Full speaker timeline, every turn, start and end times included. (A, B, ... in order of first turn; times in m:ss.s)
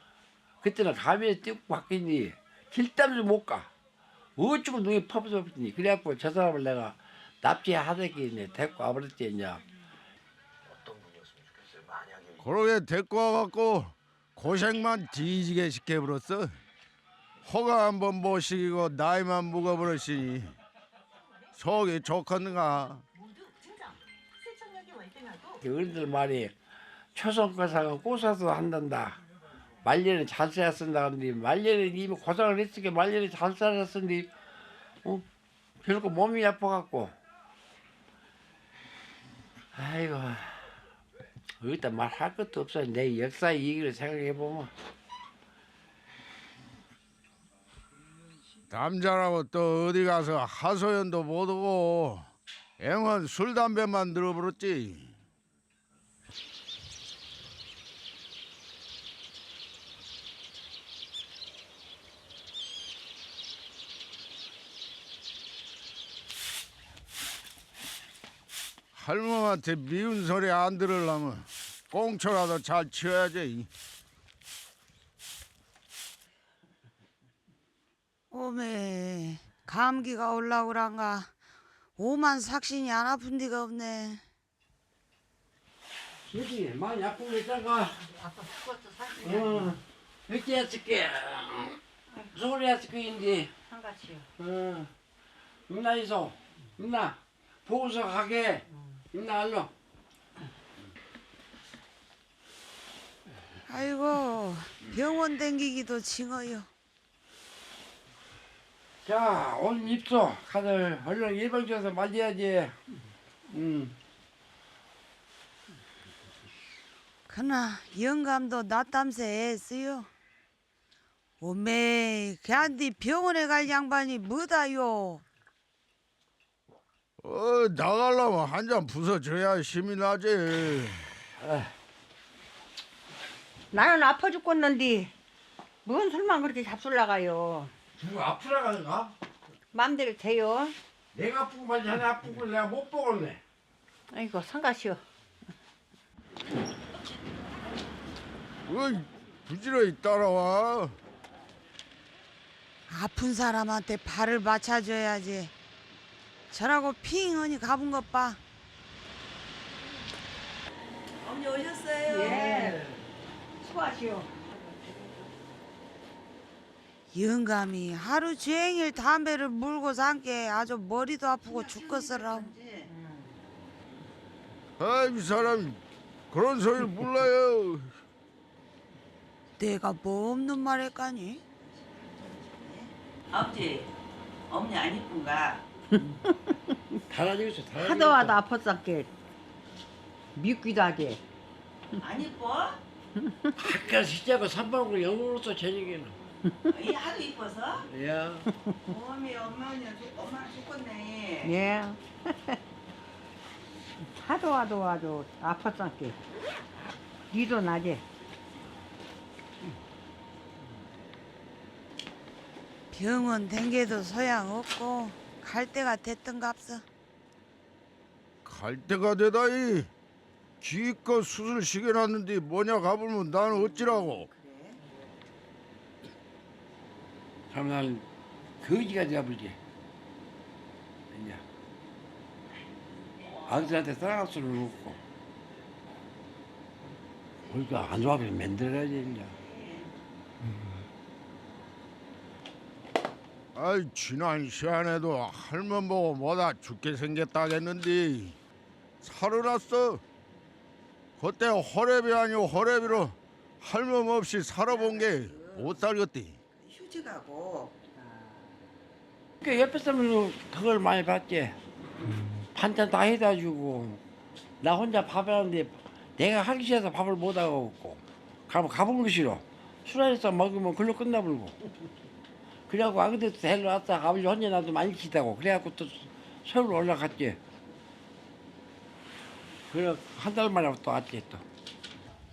0:00.6-0:03.7 A
0:04.4-0:09.6 A
0:12.4-0:16.5 B
0:17.4-0:20.5 B
0:21.6-0:23.0 B
0:24.6-0:25.3 C
0:25.4-0:26.5 A
0:27.1-0:29.2 A
0:29.8-0:34.3 A
0:35.8-0:37.1 A
0:39.7-0:40.7 A
0:41.6-0:44.7 A
0:48.7-0:52.3 B
0:52.8-0:55.2 B
1:08.9-1:13.7 B
1:18.3-1:21.3 D
1:22.0-1:24.2 D
1:26.3-1:28.0 A
1:28.1-1:29.7 C
1:29.2-1:31.8 A
1:32.3-1:33.5 A
1:33.6-1:34.3 C
1:34.4-1:34.9 A
1:35.7-1:39.7 A
1:43.6-1:46.7 D
1:49.0-1:52.8 A
1:53.5-1:53.9 A
1:57.3-2:00.1 D
2:01.4-2:05.2 D
2:07.2-2:11.1 B
2:11.4-2:11.7 A
2:13.7-2:15.1 C
2:15.8-2:17.7 C
2:18.0-2:19.1 A
2:19.7-2:20.8 C
2:21.1-2:23.4 A
2:24.1-2:25.0 C
2:28.6-2:31.0 B
2:32.9-2:35.5 D
2:36.5-2:38.4 D
2:41.2-2:42.7 E
2:42.0-2:42.8 C
2:43.6-2:44.4 C
2:47.1-2:52.6 D
2:51.7-2:52.7 E
2:52.7-2:53.4 C
2:54.8-2:58.0 B
2:59.6-3:01.4 D
3:02.4-3:03.9 E
3:04.5-3:05.6 E
3:05.9-3:06.8 C
3:07.1-3:08.4 A
3:07.8-3:09.1 C
3:10.3-3:11.2 C
3:12.0-3:12.8 E
3:13.2-3:13.5 C
3:13.6-3:16.2 A
3:16.4-3:16.9 C
3:16.7-3:17.7 E
3:17.8-3:18.5 A
3:18.5-3:18.9 C
3:18.9-3:21.4 E
3:21.4-3:22.6 C
3:24.1-3:26.2 C
3:27.3-3:28.0 C
3:32.9-3:36.8 D
3:38.4-3:39.9 B
3:40.6-3:44.3 B
3:47.5-3:48.0 A
3:48.6-3:49.6 A
3:51.1-3:51.4 A
3:53.4-3:55.0 A
3:57.5-3:59.4 A
4:03.5-4:08.4 B
4:09.0-4:10.0 B
4:11.2-4:16.4 B
4:16.6-4:17.7 E
4:18.0-4:18.3 C
4:19.4-4:21.6 A
4:22.5-4:24.0 A
4:24.6-4:31.6 A
4:32.7-4:37.4 A
4:39.7-4:41.4 A